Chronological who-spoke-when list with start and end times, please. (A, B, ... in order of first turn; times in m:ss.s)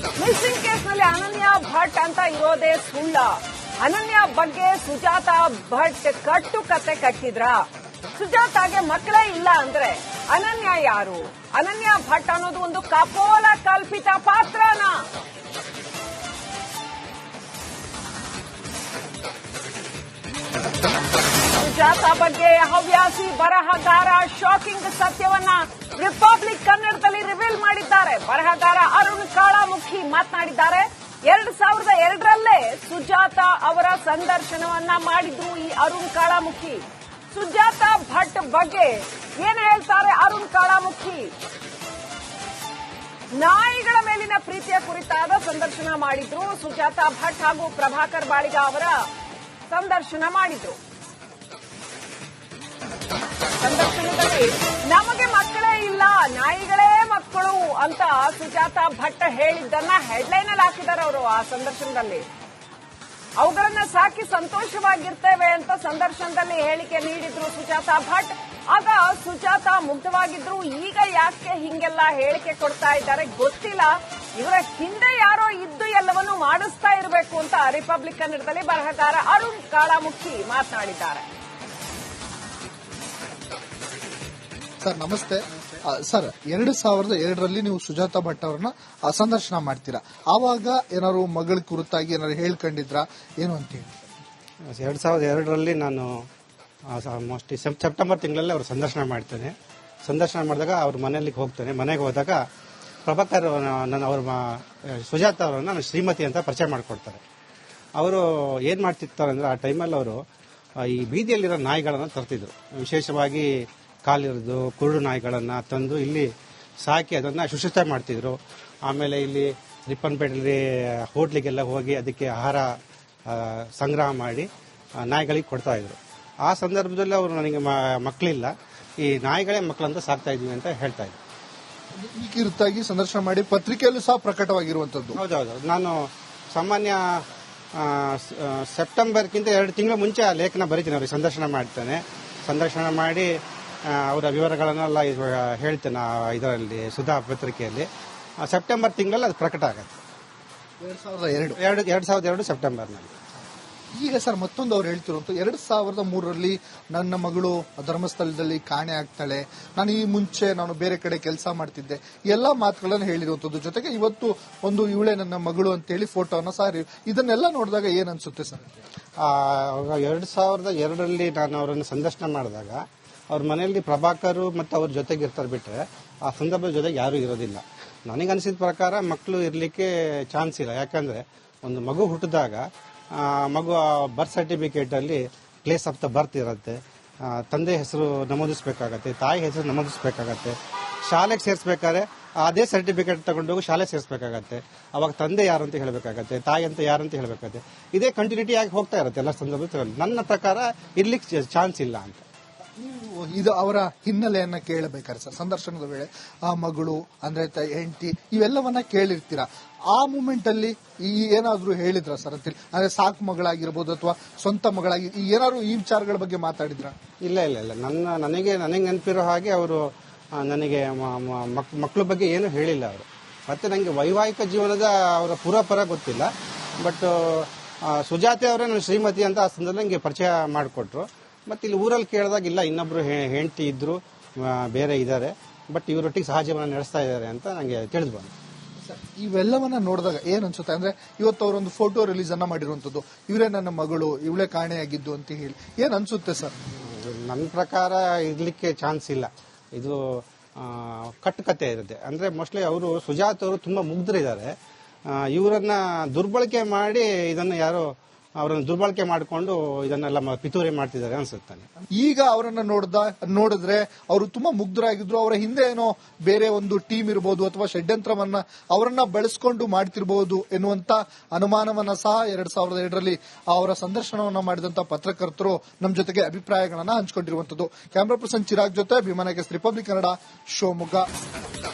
0:00.2-0:15.1 A
0:21.6-0:41.3 A
0:43.3-0:49.1 A
0:49.7-0:50.8 A
0:53.6-1:02.2 A
1:03.4-1:21.3 A
1:24.8-1:34.1 B
1:34.8-1:36.1 C
1:36.9-1:39.5 C
1:40.0-1:42.4 C
1:43.1-1:47.2 C
1:48.0-1:50.2 C
1:50.8-1:53.5 C
1:54.1-1:56.3 C
1:56.8-2:02.7 C
2:03.3-2:04.5 C
2:05.1-2:11.2 C
2:12.0-2:15.2 B
2:15.2-2:17.2 C
2:17.8-2:23.3 C
2:23.9-2:27.9 C
2:28.5-2:30.0 C
2:30.8-2:31.6 B
2:31.6-2:33.1 C
2:34.0-2:48.7 B
2:49.2-3:10.6 C
3:11.1-3:22.2 C
3:22.8-3:37.0 B
3:37.2-3:46.3 C
3:46.8-3:58.3 C
3:58.8-4:06.6 B
4:06.8-4:14.5 C
4:15.1-4:17.9 C
4:18.4-4:21.7 C
4:22.0-4:41.0 B